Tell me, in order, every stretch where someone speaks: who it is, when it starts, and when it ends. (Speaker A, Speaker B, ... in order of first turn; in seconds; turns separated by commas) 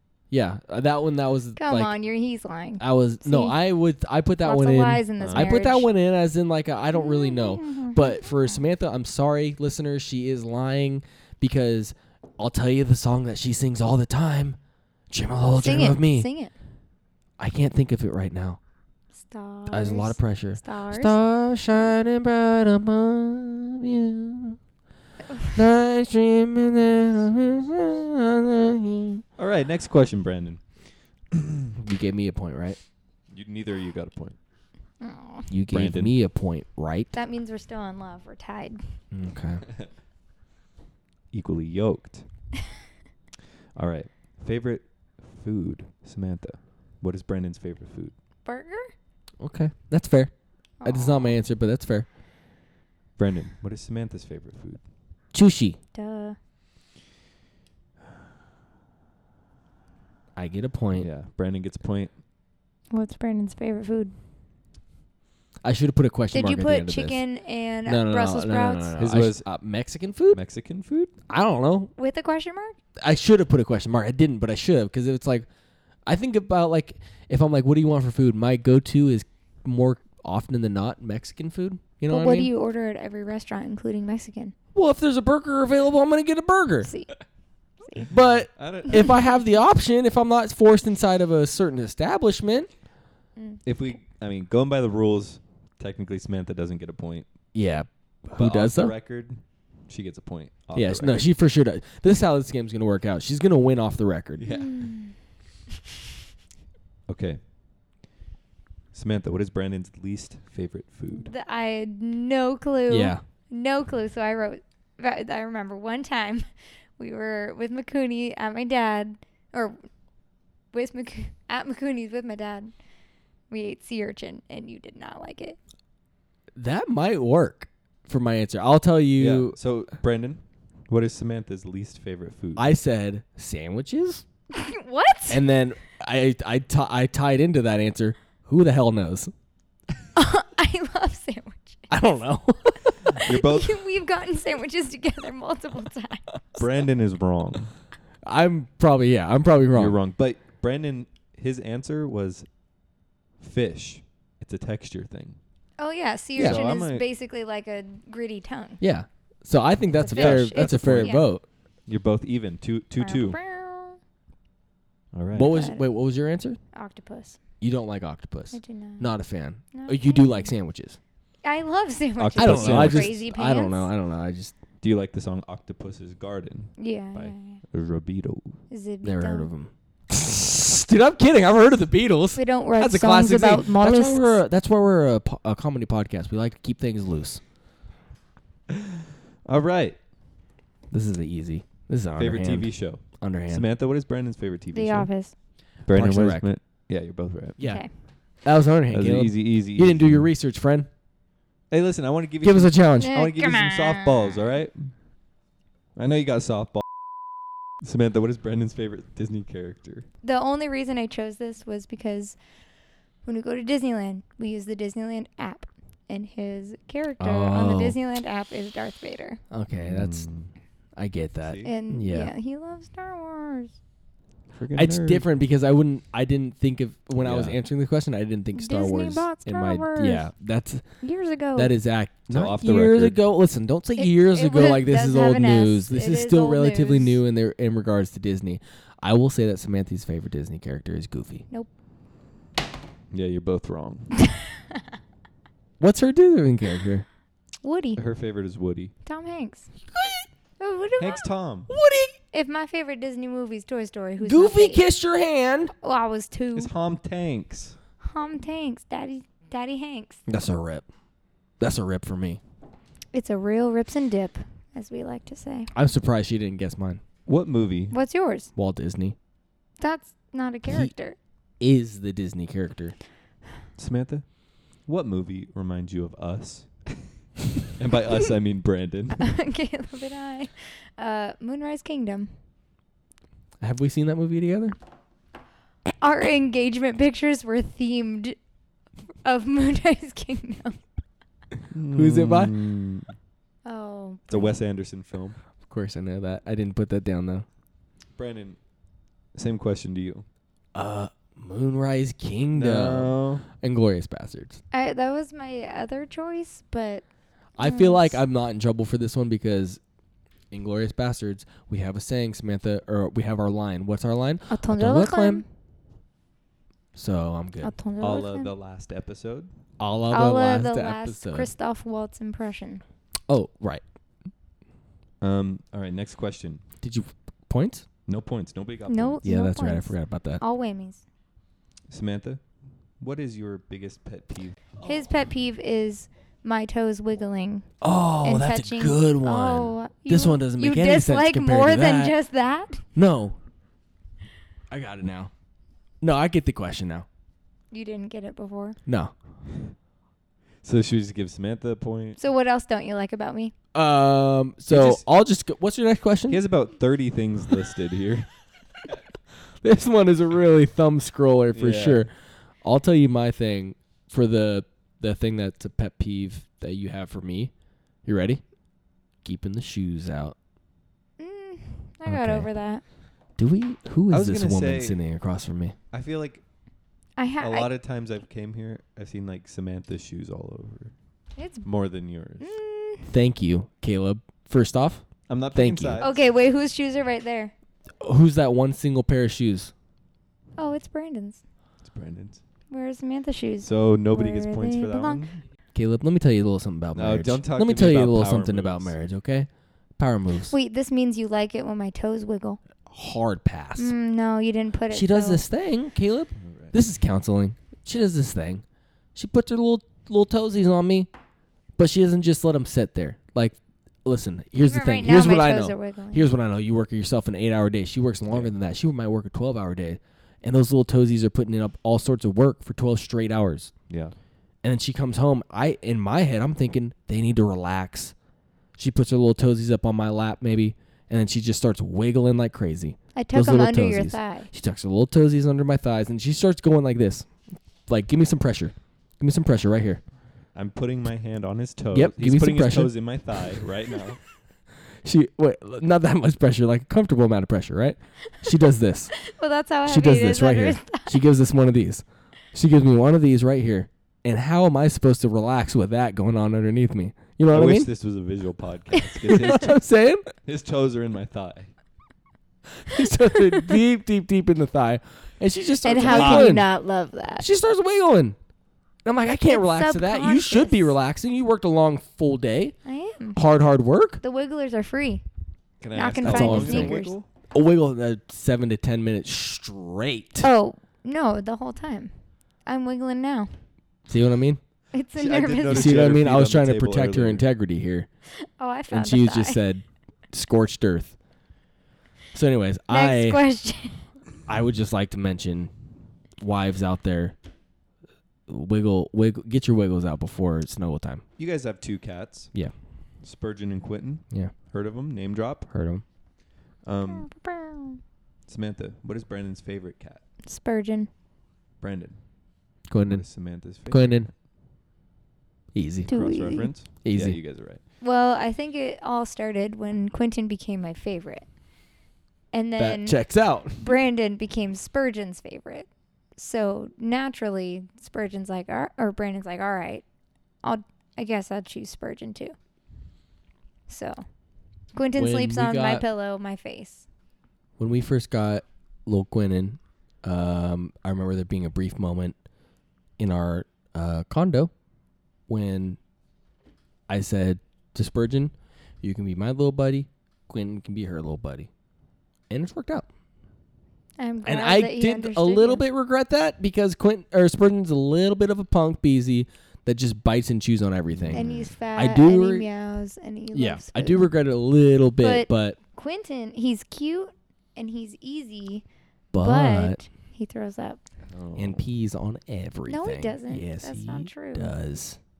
Speaker A: 0.3-1.9, Speaker B: 1.6-3.6, Speaker A: 2.8-14.6, Speaker B: 4.4-5.9, Speaker C: 5.2-5.6, Speaker B: 6.9-8.6, Speaker A: 15.1-16.3, Speaker B: 15.5-16.5, Speaker A: 17.4-18.6, Speaker B: 19.2-21.2, Speaker A: 19.7-24.6, Speaker A: 25.5-29.2, Speaker C: 29.4-30.6, Speaker C: 31.3-31.7, Speaker A: 31.8-32.8, Speaker C: 33.3-34.4, Speaker B: 35.0-35.5, Speaker A: 35.5-37.1, Speaker C: 35.7-36.2, Speaker B: 37.1-38.8, Speaker A: 39.1-39.6, Speaker C: 41.3-42.2, Speaker C: 43.8-48.1, Speaker B: 48.4-48.9, Speaker A: 49.4-50.3, Speaker B: 50.8-51.4, Speaker A: 50.8-52.1, Speaker C: 53.2-54.8, Speaker A: 55.3-55.8, Speaker B: 55.9-56.4, Speaker A: 60.4-61.1, Speaker C: 61.0-62.1, Speaker B: 62.9-64.1, Speaker A: 65.6-67.2, Speaker B: 66.3-68.9, Speaker A: 67.8-70.4, Speaker C: 69.0-69.5, Speaker C: 70.3-71.1, Speaker A: 71.3-71.9, Speaker B: 72.0-72.8, Speaker A: 73.0-75.5, Speaker A: 76.0-82.5, Speaker B: 82.1-84.5, Speaker A: 84.7-86.9, Speaker B: 86.8-87.2, Speaker B: 87.8-88.1, Speaker A: 88.1-92.7, Speaker C: 88.5-89.2, Speaker B: 89.0-89.2, Speaker C: 93.6-97.3, Speaker A: 97.5-98.9, Speaker C: 98.4-101.3, Speaker A: 100.7-104.5, Speaker C: 104.4-104.8, Speaker B: 104.5-105.1, Speaker C: 107.1-107.4, Speaker C: 108.9-111.3, Speaker B: 111.1-116.4, Speaker A: 112.9-113.2, Speaker B: 117.0-119.8, Speaker B: 120.7-122.7, Speaker B: 123.5-125.6, Speaker A: 126.5-129.6, Speaker C: 129.2-132.7, Speaker A: 132.6-134.2, Speaker B: 134.5-135.4, Speaker A: 135.3-139.3, Speaker B: 140.2-141.9, Speaker A: 141.9-142.9, Speaker B: 143.0-146.2, Speaker C: 143.2-143.8, Speaker C: 146.6-147.7, Speaker A: 148.2-150.0, Speaker C: 149.7-152.5, Speaker C: 153.4-155.4, Speaker B: 155.8-158.8, Speaker C: 156.3-157.0, Speaker A: 158.8-161.4, Speaker B: 160.0-161.3, Speaker C: 160.1-161.2, Speaker C: 161.9-163.4, Speaker B: 163.0-164.0, Speaker C: 165.1-165.6, Speaker A: 165.3-166.6, Speaker B: 165.4-165.8, Speaker B: 166.7-167.4, Speaker A: 167.6-171.0, Speaker B: 168.5-169.1, Speaker B: 169.7-170.6, Speaker B: 171.4-173.9, Speaker C: 172.2-173.1, Speaker A: 172.3-174.5, Speaker C: 174.8-178.6, Speaker B: 176.8-177.6, Speaker B: 178.7-179.5, Speaker A: 179.0-187.4, Speaker B: 182.3-184.4, Speaker C: 189.5-190.0, Speaker A: 190.9-193.7, Speaker C: 192.2-195.1, Speaker B: 194.7-195.3, Speaker C: 195.8-197.6, Speaker A: 195.9-196.5, Speaker A: 197.6-197.9, Speaker B: 197.6-197.9, Speaker A: 198.4-200.9, Speaker C: 198.9-200.3, Speaker C: 201.7-204.9, Speaker A: 202.4-203.1, Speaker B: 203.0-204.5, Speaker C: 205.9-206.9, Speaker C: 207.8-210.1, Speaker B: 210.2-212.4, Speaker B: 213.2-219.4, Speaker A: 217.2-217.9, Speaker A: 219.5-220.3, Speaker C: 219.8-220.5, Speaker A: 220.9-222.3, Speaker C: 221.4-221.7, Speaker B: 221.6-223.7, Speaker C: 224.5-225.2, Speaker A: 224.7-230.8, Speaker C: 227.2-227.6, Speaker B: 228.5-230.3, Speaker B: 231.0-231.8, Speaker A: 231.5-241.4, Speaker C: 232.3-233.2, Speaker B: 234.0-237.2, Speaker C: 243.1-244.2, Speaker A: 245.8-247.1, Speaker B: 247.6-248.0, Speaker C: 247.9-248.9, Speaker B: 249.0-249.7, Speaker B: 250.6-251.2, Speaker C: 251.0-251.7, Speaker A: 251.7-252.2, Speaker B: 252.3-254.8, Speaker A: 254.2-255.7, Speaker B: 255.8-256.7, Speaker C: 256.5-257.8, Speaker B: 258.0-260.2, Speaker A: 260.3-260.8, Speaker A: 261.6-262.4, Speaker B: 263.1-265.7, Speaker A: 265.7-267.0, Speaker C: 267.3-268.0, Speaker B: 267.9-268.5, Speaker A: 268.5-269.1, Speaker B: 269.8-271.1, Speaker A: 271.6-272.9, Speaker C: 273.8-274.2, Speaker C: 274.9-276.7, Speaker C: 277.8-279.2, Speaker B: 279.2-282.3, Speaker A: 283.6-284.8, Speaker B: 286.0-288.4, Speaker B: 289.2-290.8, Speaker C: 291.7-293.1, Speaker A: 291.9-292.5, Speaker B: 293.6-294.6, Speaker C: 294.3-295.4, Speaker A: 295.7-297.4, Speaker C: 298.1-298.6, Speaker C: 299.3-300.2, Speaker A: 300.7-304.6, Speaker C: 302.5-303.4, Speaker B: 304.7-307.0, Speaker A: 307.6-309.8, Speaker B: 307.6-308.2, Speaker A: 310.5-315.4, Speaker B: 314.5-315.4, Speaker A: 316.9-317.7, Speaker B: 317.6-318.5, Speaker C: 318.0-319.5, Speaker A: 319.8-321.5, Speaker B: 320.1-322.8, Speaker A: 323.3-323.8, Speaker C: 325.2-326.6, Speaker A: 326.8-327.9, Speaker C: 328.1-329.2, Speaker B: 328.9-331.0, Speaker A: 329.2-330.4, Speaker C: 331.9-332.4, Speaker C: 333.0-334.6, Speaker B: 334.8-337.7, Speaker A: 337.8-342.1, Speaker B: 338.2-342.8, Speaker A: 342.9-343.4, Speaker A: 344.7-345.3, Speaker A: 346.0-347.1, Speaker B: 347.7-348.8, Speaker A: 348.9-349.1, Speaker C: 350.6-352.2, Speaker B: 352.2-353.5, Speaker A: 353.7-356.4, Speaker C: 354.7-355.0, Speaker C: 356.3-358.3, Speaker A: 359.6-367.5, Speaker C: 361.5-362.1, Speaker A: 368.0-368.4, Speaker A: 369.2-370.3, Speaker B: 371.2-372.8, Speaker A: 372.1-372.5, Speaker A: 373.4-375.8, Speaker C: 374.1-375.0, Speaker C: 375.9-376.4, Speaker B: 377.2-377.7, Speaker C: 377.4-380.9, Speaker B: 381.4-381.6, Speaker C: 381.6-382.5, Speaker B: 382.4-383.1, Speaker A: 383.1-386.0, Speaker C: 385.3-386.2, Speaker B: 386.0-387.5, Speaker A: 388.0-389.7, Speaker B: 390.6-391.4, Speaker C: 391.8-392.4, Speaker B: 392.7-395.2, Speaker C: 393.6-395.4, Speaker A: 395.7-400.5, Speaker C: 396.9-398.9, Speaker B: 400.5-402.6, Speaker A: 402.9-403.9, Speaker B: 403.8-405.4, Speaker A: 404.9-408.6, Speaker C: 406.4-406.7, Speaker A: 409.1-411.1, Speaker A: 411.8-423.7, Speaker B: 414.6-416.3, Speaker C: 423.9-424.1, Speaker A: 424.6-428.1, Speaker A: 428.8-437.3, Speaker B: 433.1-434.5, Speaker A: 437.9-440.0, Speaker C: 440.5-444.2, Speaker A: 441.9-442.9, Speaker A: 445.0-449.1, Speaker B: 449.2-451.2, Speaker A: 449.8-457.9, Speaker C: 457.5-459.8, Speaker A: 459.3-460.3, Speaker C: 460.4-461.7, Speaker A: 462.8-466.7, Speaker B: 465.8-467.4, Speaker C: 466.1-466.5, Speaker A: 467.4-468.4, Speaker A: 469.0-472.7, Speaker B: 469.4-470.9, Speaker B: 472.9-473.4, Speaker A: 473.3-474.2, Speaker B: 474.2-475.2, Speaker C: 475.8-477.3, Speaker B: 475.9-477.1, Speaker A: 476.2-477.0, Speaker A: 477.5-480.5, Speaker B: 480.4-482.1, Speaker B: 482.6-483.5, Speaker A: 484.1-484.6, Speaker B: 484.9-486.1, Speaker C: 485.2-487.5, Speaker A: 485.7-488.1, Speaker B: 488.6-489.6, Speaker A: 488.9-491.1, Speaker A: 492.3-493.4, Speaker B: 492.9-494.0, Speaker A: 494.5-495.7, Speaker A: 496.4-497.4, Speaker A: 498.5-501.2, Speaker C: 501.4-502.5, Speaker C: 503.2-505.7, Speaker A: 505.7-506.0, Speaker C: 506.8-507.3, Speaker B: 507.1-508.0, Speaker C: 508.5-510.2, Speaker B: 510.4-511.1, Speaker C: 511.8-512.2, Speaker A: 512.9-513.2, Speaker C: 513.0-514.2, Speaker A: 513.8-514.3, Speaker A: 515.7-516.1, Speaker C: 516.0-517.8, Speaker B: 516.1-516.7, Speaker A: 517.0-517.4, Speaker B: 518.0-521.5, Speaker B: 522.5-530.0, Speaker A: 522.8-523.9, Speaker B: 530.6-532.5, Speaker B: 533.9-534.2, Speaker B: 534.9-537.0, Speaker A: 535.1-536.1, Speaker A: 537.8-542.4, Speaker A: 543.2-544.7, Speaker A: 545.5-546.0, Speaker A: 547.1-551.7, Speaker A: 552.5-553.1, Speaker B: 554.2-555.8, Speaker A: 554.4-562.7, Speaker C: 561.1-561.7, Speaker B: 561.3-564.3, Speaker A: 563.5-565.8, Speaker B: 565.2-568.9, Speaker A: 569.3-570.0, Speaker B: 569.4-571.0, Speaker C: 571.2-571.8, Speaker A: 571.5-575.2, Speaker B: 572.9-574.7